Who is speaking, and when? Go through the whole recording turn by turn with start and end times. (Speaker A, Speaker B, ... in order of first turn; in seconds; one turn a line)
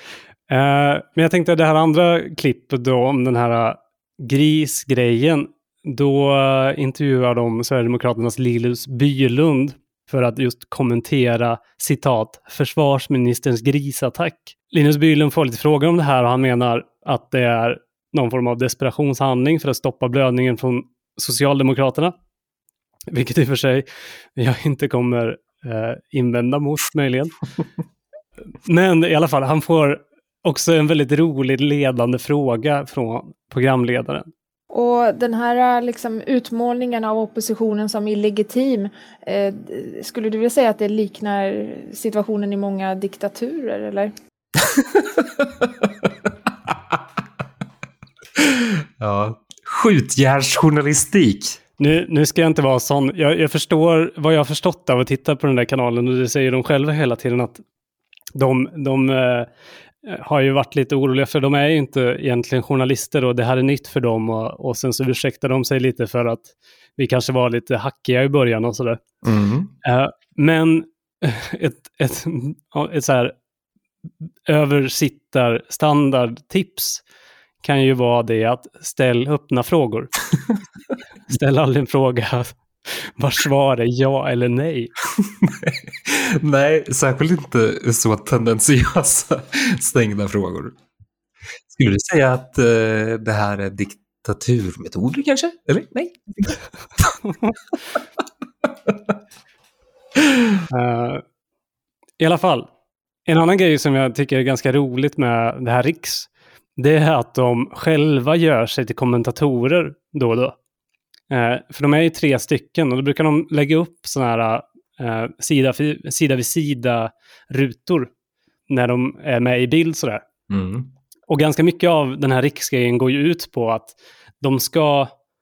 Speaker A: 0.5-22.1
Speaker A: 23.1-27.3
Speaker A: 28.6-34.3
Speaker B: 34.7-44.1
Speaker C: 44.7-45.9
Speaker C: 46.7-47.0
Speaker C: 48.4-51.6
Speaker A: 51.8-57.6
Speaker A: 58.4-59.5
Speaker A: 60.0-69.0
Speaker C: 69.2-69.7
Speaker A: 69.8-73.3
Speaker A: 74.5-77.0
Speaker A: 77.6-80.1
Speaker A: 81.3-84.9
Speaker C: 85.2-90.8
Speaker C: 91.7-97.2
Speaker A: 100.7-101.2
Speaker A: 102.2-102.7
Speaker A: 103.3-110.6
Speaker A: 111.3-118.1
Speaker A: 118.7-120.2
Speaker C: 120.5-120.9
Speaker A: 121.3-125.1